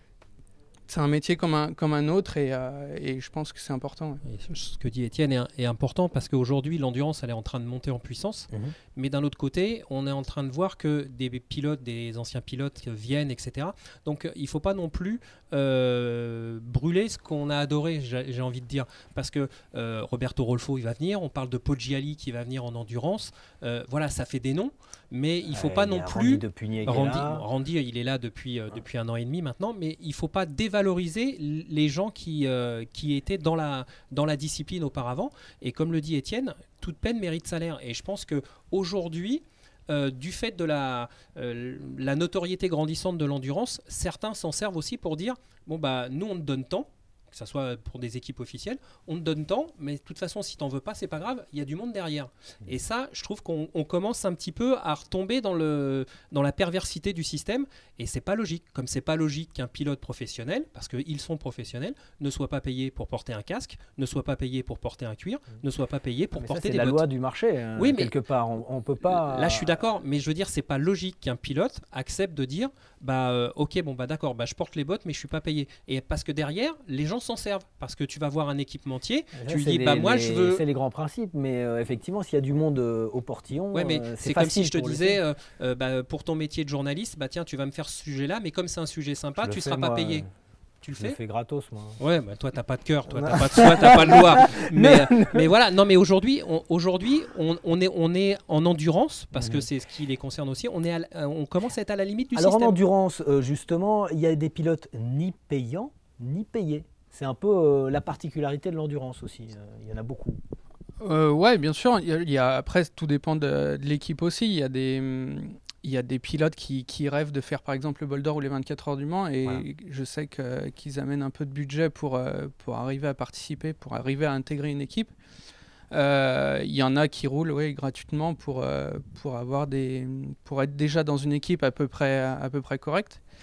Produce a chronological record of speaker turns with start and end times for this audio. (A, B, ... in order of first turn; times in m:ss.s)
0:00.9-0:04.2 A
0:04.2-1:07.0 B
0:25.5-0:27.4 C
1:06.4-1:09.8 C
1:07.8-1:08.1 B
1:09.0-1:20.6 B
1:19.4-1:25.2 C
1:23.7-1:30.2 B
1:29.4-1:30.3 C
1:30.8-1:31.2 B
1:30.9-1:32.0 C
1:32.0-1:42.8 B
1:33.1-1:35.5 C
1:39.3-1:39.7 C
1:42.3-1:50.4 C
1:51.0-2:05.1 A
2:05.9-2:13.2 A